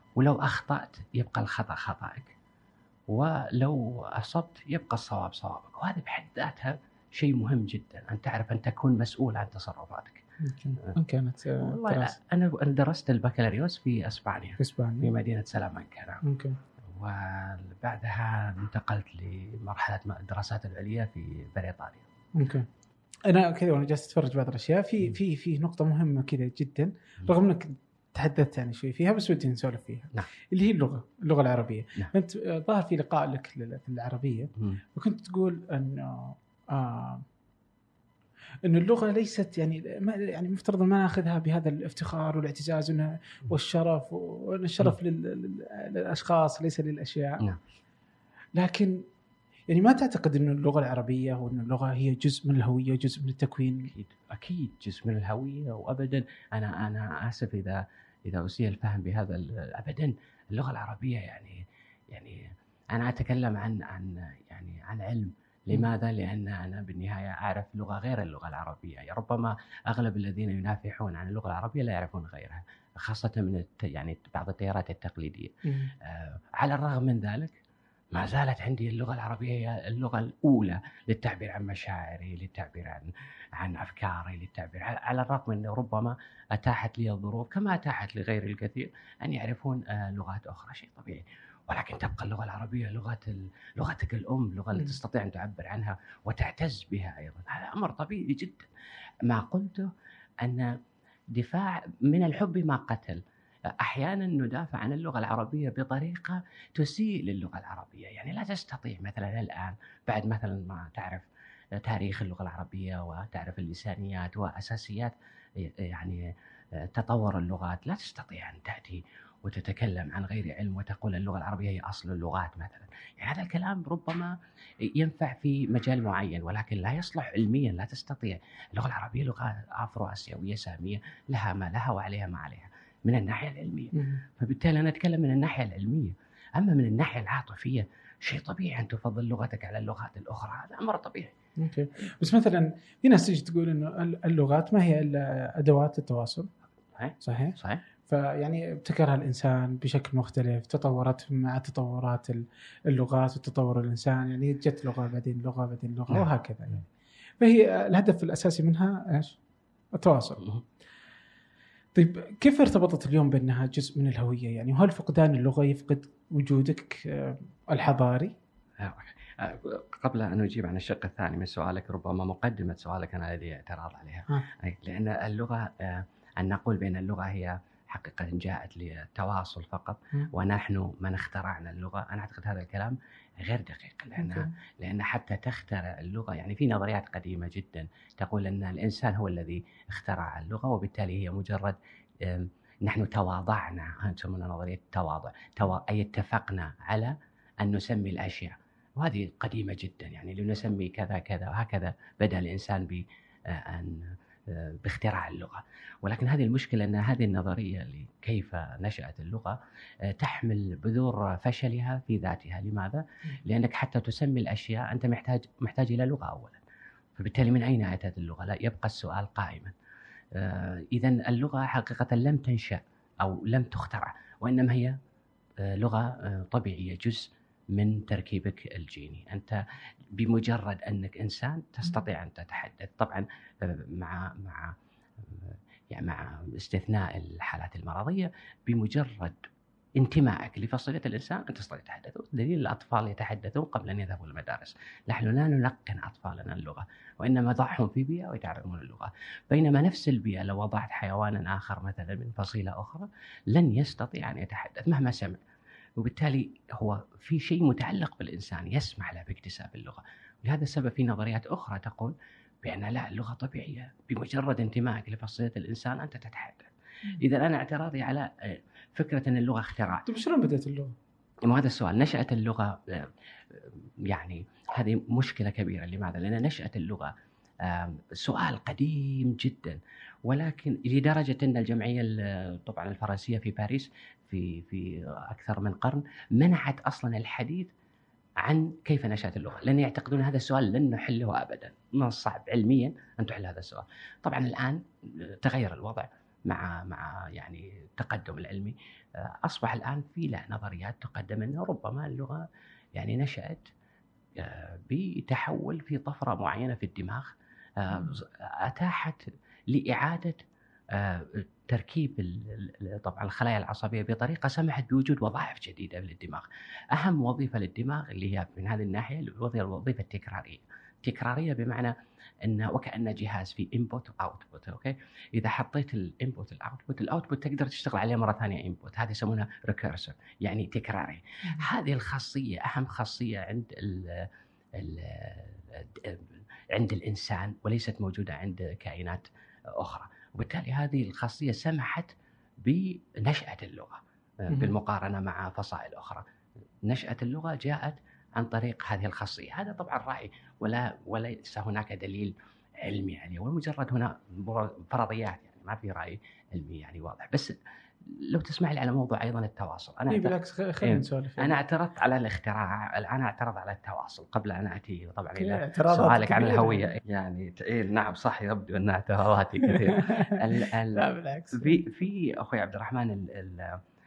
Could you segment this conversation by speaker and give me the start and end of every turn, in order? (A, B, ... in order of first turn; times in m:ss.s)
0:00.2-0:02.3 A
0:03.1-0:10.2 A
0:10.4-0:12.2 B
0:11.6-0:16.2 A
0:14.6-0:15.1 B
0:16.2-0:16.6 B
0:16.9-0:22.1 A
0:22.4-0:22.7 B
0:23.2-0:37.2 B
0:38.6-0:47.4 B
0:48.6-0:49.1 B
0:49.7-0:53.9 B
0:53.9-1:17.6 A
1:15.6-1:15.9 B
1:18.1-1:38.7 A
1:39.2-1:39.9 A
1:40.4-1:40.7 A
1:41.3-1:43.2 A
1:43.8-1:51.2 A
1:51.8-1:56.2 A
1:56.8-2:21.3 A
2:13.9-2:14.2 B
2:21.6-2:26.5 B
2:27.0-2:27.8 A
2:27.2-2:27.6 B
2:28.1-2:36.8 B
2:37.4-2:39.4 B
2:39.9-2:40.4 B
2:41.9-2:48.3 B
2:48.8-3:29.5 A
3:04.2-3:04.5 B
3:30.1-3:36.6 A
3:37.2-3:39.8 A
3:40.4-3:45.0 A
3:45.6-3:49.6 A
3:50.2-3:54.8 A
3:55.3-3:59.4 A
4:00.0-4:15.4 A
4:16.0-4:30.0 A
4:30.0-4:30.9 B
4:31.5-4:37.1 A
4:37.6-4:47.7 A
4:48.4-5:02.4 A
5:02.9-5:03.7 A
5:04.4-5:21.9 A
5:22.5-5:46.2 A
5:46.9-5:57.5 A
5:58.1-6:13.8 A
6:00.1-6:01.6 B
6:05.4-6:06.9 B
6:09.6-6:11.8 B